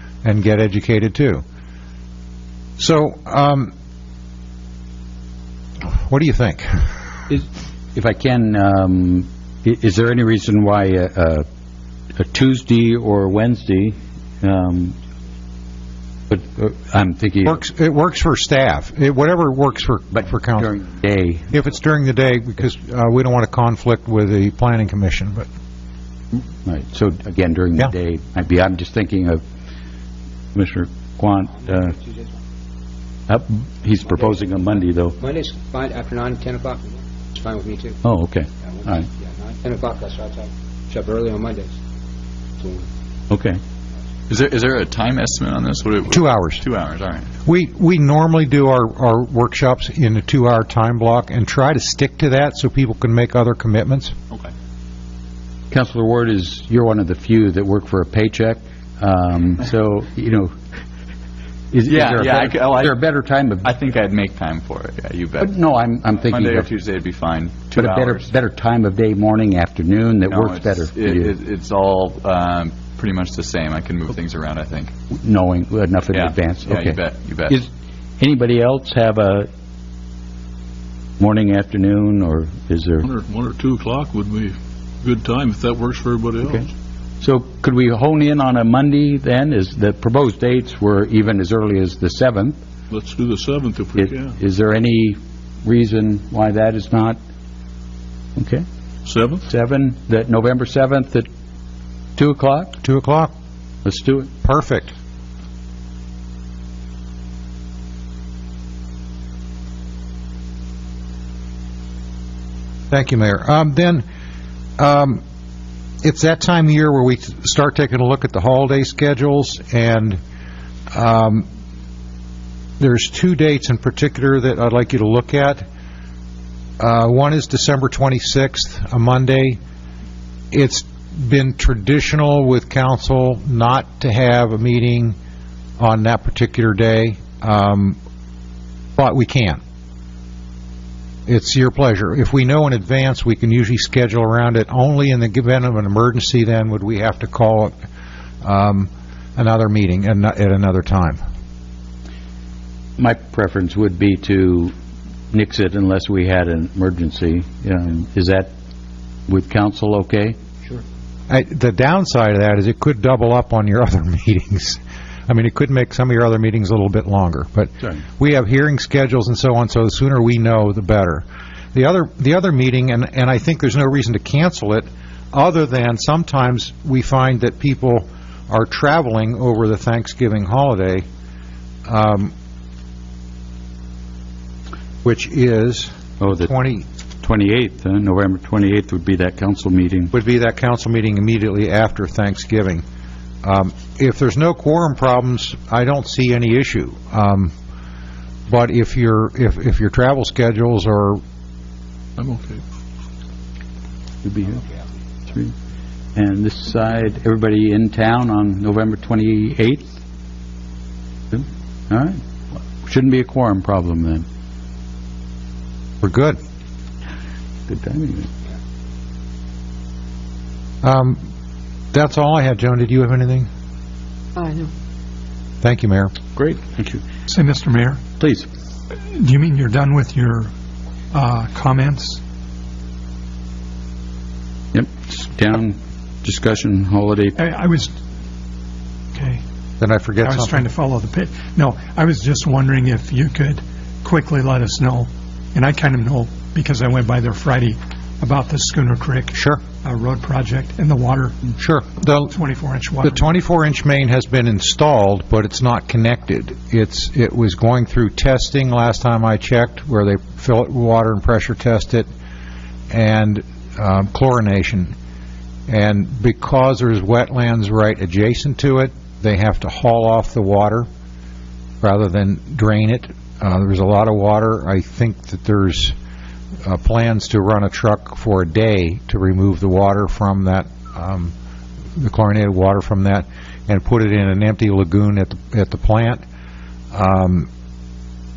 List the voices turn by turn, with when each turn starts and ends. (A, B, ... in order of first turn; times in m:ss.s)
0:00.2-0:01.4 A
0:02.8-0:03.7 A
0:05.9-0:06.8 A
0:07.3-0:11.4 B
0:12.1-0:15.0 B
0:16.3-0:17.6 B
0:17.4-0:20.7 A
0:20.1-0:21.5 B
0:21.5-0:25.5 A
0:26.6-0:29.4 B
0:30.5-0:32.0 B
0:32.0-0:32.3 C
0:33.3-0:35.2 B
0:34.0-0:34.4 C
0:35.2-0:38.0 C
0:38.0-0:39.1 B
0:38.7-0:41.8 C
0:42.6-0:42.9 C
0:43.3-0:43.6 B
0:44.3-0:47.3 D
0:46.1-0:46.6 A
0:47.4-0:54.1 A
0:55.7-1:00.5 B
1:01.7-1:03.7 B
1:01.9-1:03.0 D
1:03.6-1:05.6 D
1:05.4-1:06.7 B
1:06.2-1:08.3 D
1:07.7-1:11.3 B
1:10.3-1:14.9 D
1:15.1-1:19.5 B
1:16.1-1:17.6 D
1:21.2-1:23.1 B
1:23.0-1:26.6 E
1:27.2-1:32.6 B
1:32.9-1:34.3 E
1:34.0-1:37.2 B
1:38.4-1:38.6 B
1:39.0-1:39.4 E
1:39.4-1:41.3 B
1:42.2-1:42.8 B
1:42.8-1:43.3 A
1:43.8-1:44.3 B
1:44.4-1:44.9 A
1:52.9-1:54.0 A
1:54.8-1:55.2 A
1:56.0-2:00.2 A
2:00.9-2:01.5 A
2:02.8-2:05.6 A
2:06.8-2:09.6 A
2:10.5-2:15.2 A
2:15.8-2:18.0 A
2:19.0-2:19.6 A
2:21.3-2:27.7 A
2:28.4-2:31.2 A
2:33.0-2:34.7 B
2:35.3-2:38.5 B
2:39.3-2:40.4 B
2:41.3-3:01.0 A
3:01.9-3:02.3 A
3:05.0-3:06.8 A
3:06.2-3:06.5 B
3:07.2-3:10.1 B
3:10.1-3:12.8 A
3:13.4-3:17.5 A
3:18.5-3:21.2 A
3:22.2-3:22.6 E
3:24.2-3:24.7 B
3:25.3-3:25.5 B
3:26.1-3:30.0 B
3:31.3-3:34.2 B
3:36.0-3:36.4 A
3:37.7-3:38.3 B
3:40.8-3:41.2 A
3:41.9-3:43.5 A
3:45.6-3:46.1 A
3:46.4-3:47.0 B
3:47.3-3:48.0 F
3:48.2-3:48.5 B
3:49.1-3:50.5 F
3:51.1-3:52.2 F
3:54.7-3:57.3 B
3:57.4-3:57.9 F
3:59.1-3:59.4 F
3:59.8-4:00.6 A
4:00.2-4:11.4 F
4:09.3-4:09.6 A
4:11.6-4:12.3 A
4:12.3-4:13.2 F
4:13.0-4:22.1 A
4:22.9-4:24.9 A
4:25.7-4:30.9 A
4:31.8-4:35.9 A
4:36.6-4:41.3 A
4:42.0-4:46.2 A
4:46.9-4:47.5 A